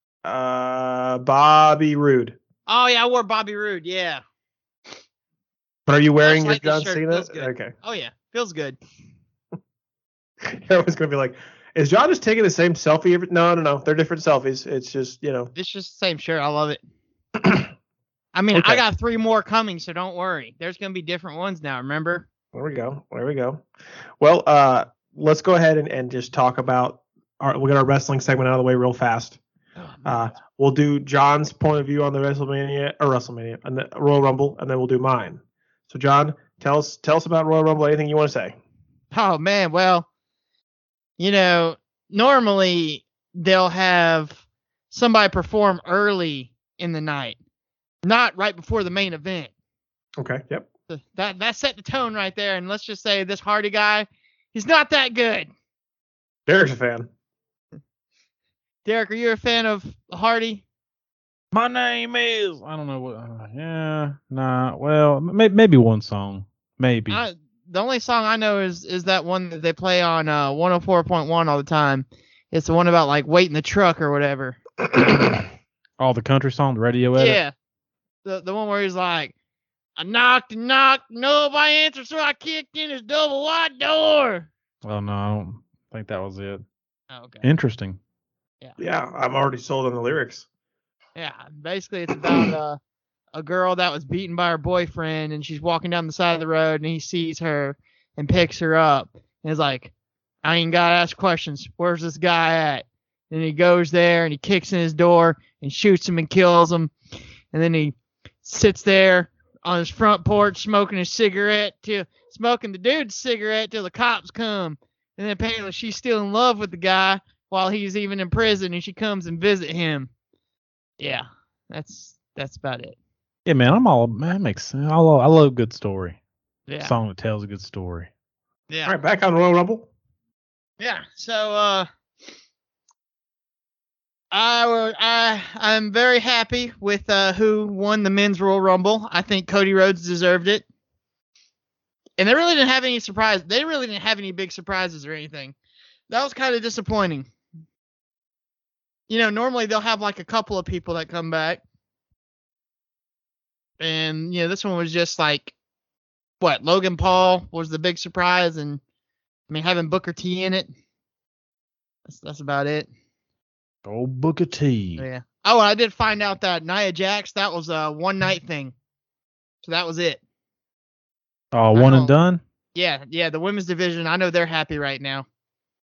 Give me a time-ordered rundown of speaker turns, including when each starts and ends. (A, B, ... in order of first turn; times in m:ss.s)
0:00.2-0:02.4 A
0:02.7-0:04.2 B
0:05.9-0:07.7 A
0:06.2-0:08.8 B
0:10.4-0:15.5 A
0:15.5-0:16.8 B
0:17.4-0:17.7 A
0:18.3-0:22.2 B
0:22.5-0:23.6 A
0:24.2-0:29.4 A
0:29.8-0:30.1 B
0:30.0-0:38.6 A
0:39.1-0:40.1 B
0:41.2-0:47.4 B
0:48.0-0:49.5 B
0:50.2-0:50.7 A
0:50.9-0:55.5 B
0:56.5-0:57.1 A
0:58.8-1:00.6 B
1:01.5-1:07.2 C
1:07.1-1:14.6 B
1:16.0-1:17.4 C
1:17.2-1:17.5 B
1:18.2-1:19.3 B
1:20.0-1:24.5 B
1:24.8-1:26.6 C
1:27.1-1:27.5 B
1:27.4-1:28.0 C
1:28.8-1:30.4 A
1:31.2-1:32.8 B
1:33.3-1:39.9 B
1:40.4-1:46.9 B
1:47.5-2:00.1 B
2:01.0-2:03.0 B
2:03.4-2:06.2 C
2:06.7-2:06.9 B
2:06.8-2:08.1 C
2:08.8-2:09.9 A
2:10.8-2:11.9 B
2:14.3-2:20.6 B
2:22.2-2:25.5 B
2:26.1-2:27.3 B
2:29.1-2:31.6 B
2:33.8-2:35.5 B
2:36.4-2:38.8 B
2:39.5-2:40.7 B
2:42.0-2:42.9 B
2:43.8-2:45.0 C
2:45.0-2:48.7 B
2:49.6-2:50.2 B
2:51.5-2:52.4 C
2:51.7-2:52.1 B
2:52.7-2:55.2 B